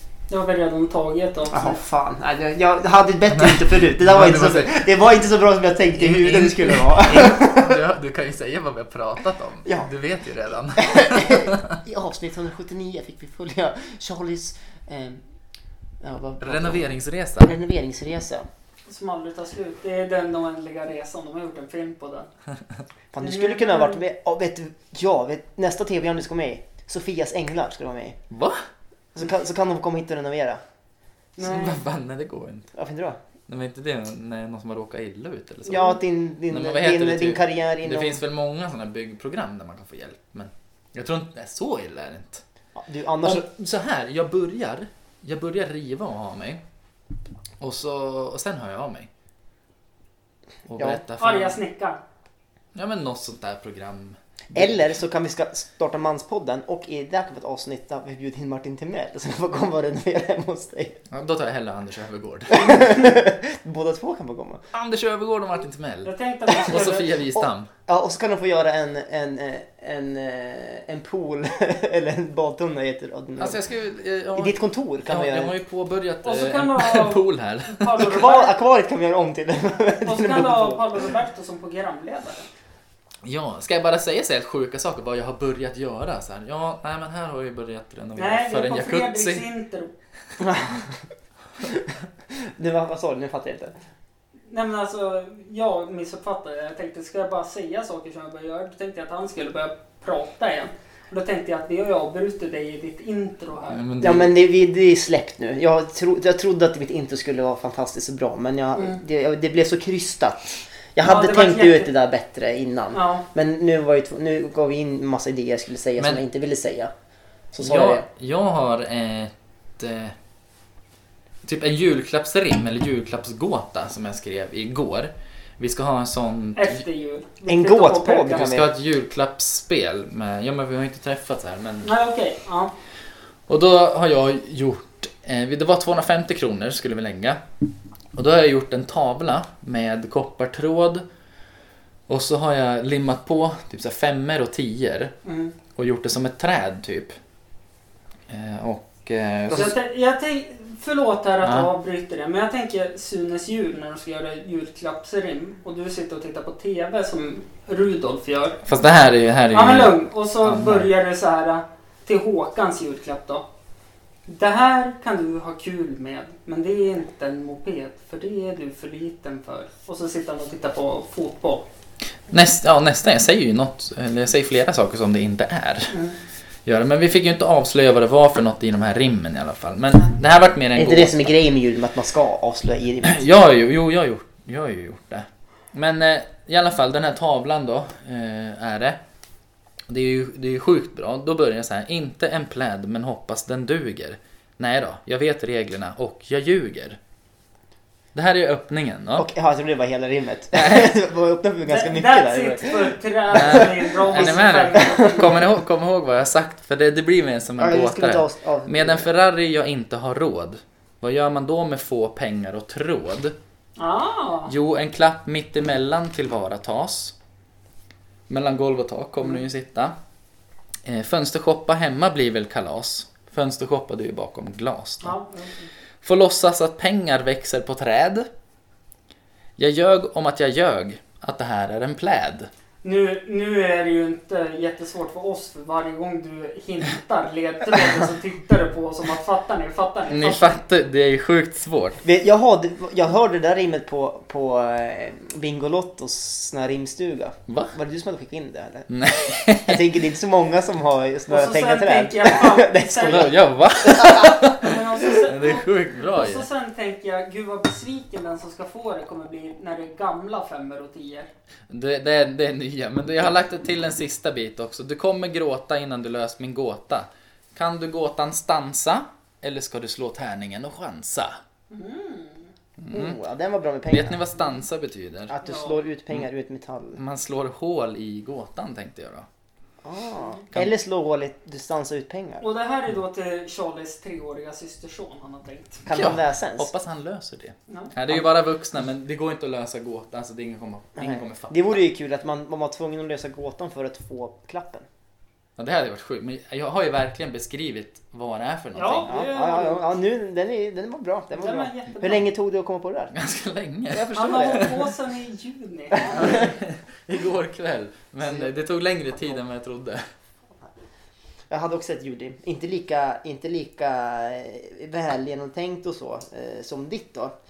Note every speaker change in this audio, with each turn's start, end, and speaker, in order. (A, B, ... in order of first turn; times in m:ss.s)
0:00.3-0:01.8 A
0:01.5-0:07.8 B
0:03.3-0:04.8 C
0:06.0-0:11.8 C
0:10.8-0:15.2 B
0:16.0-0:16.8 B
0:16.4-0:17.6 C
0:17.4-0:18.5 B
0:18.9-0:22.3 A
0:23.1-0:28.2 B
0:23.2-0:24.0 A
0:28.3-0:28.6 C
0:29.2-0:30.6 B
0:31.4-0:31.8 A
0:31.4-0:32.7 C
0:32.7-0:33.2 B
0:33.5-0:42.4 C
0:35.7-0:38.2 B
0:42.8-0:43.4 B
0:43.2-0:46.6 C
0:47.6-0:49.1 C
0:50.7-0:51.6 C
0:51.2-0:52.0 A
0:52.8-0:54.9 C
0:54.5-1:01.0 B
1:01.1-1:02.9 C
1:02.5-1:04.6 B
1:04.7-1:07.7 C
1:06.0-1:07.1 A
1:07.4-1:13.6 B
1:13.4-1:18.0 C
1:14.4-1:15.5 B
1:16.2-1:18.6 A
1:18.0-1:20.8 B
1:19.8-1:22.5 A
1:23.2-1:29.5 C
1:28.2-1:29.9 A
1:30.4-1:30.9 B
1:31.6-1:33.7 B
1:34.5-1:43.8 A
1:43.7-1:44.3 C
1:44.0-1:56.9 B
1:51.0-1:51.9 A
1:52.9-1:53.3 A
1:57.5-1:58.1 B
1:57.6-2:00.2 C
2:01.4-2:06.8 C
2:06.6-2:08.5 A
2:07.5-2:08.7 B
2:08.2-2:11.9 C
2:11.8-2:12.7 A
2:13.5-2:17.4 C
2:18.2-2:21.0 C
2:22.1-2:25.1 C
2:25.2-2:25.5 A
2:25.8-2:27.2 C
2:28.3-2:29.8 C
2:29.5-2:38.6 A
2:31.4-2:31.7 C
2:38.7-2:40.9 C
2:39.5-2:43.4 A
2:44.3-2:51.6 A
2:52.3-2:56.0 C
2:56.7-3:01.3 C
3:00.7-3:03.2 B
3:03.0-3:09.0 C
3:09.9-3:17.0 C
3:18.2-3:19.3 C
3:19.2-3:25.3 B
3:20.6-3:20.9 C
3:21.7-3:25.4 A
3:23.3-3:33.4 C
3:27.6-3:29.1 B
3:33.8-3:34.5 A
3:34.5-3:37.1 C
3:38.3-3:40.0 C
3:40.9-3:45.2 C
3:45.0-3:45.7 A
3:46.0-3:48.3 C
3:49.6-3:52.5 C
3:52.8-4:00.6 A
4:00.1-4:02.0 C
4:02.0-4:08.9 B
4:07.5-4:07.8 C
4:08.9-4:09.9 C
4:09.7-4:14.4 B
4:11.3-4:13.3 A
4:13.0-4:16.5 C
4:14.6-4:21.3 A
4:21.7-4:31.4 C
4:31.7-4:32.5 A
4:32.8-4:33.2 C
4:32.9-4:34.2 B
4:33.9-4:35.4 C
4:35.3-4:37.0 B
4:35.4-4:35.8 A
4:37.0-4:39.3 C
4:39.8-4:42.4 B
4:42.4-4:45.8 A
4:45.9-4:46.7 B
4:45.9-4:51.8 C
4:51.0-4:54.9 B
4:55.6-4:59.1 C
4:58.8-4:59.8 A
4:59.1-5:03.1 B
5:01.3-5:02.2 A
5:03.1-5:04.8 C
5:03.9-5:04.7 B
5:04.1-5:06.5 A
5:06.2-5:10.0 C
5:08.2-5:08.5 B
5:11.5-5:17.4 B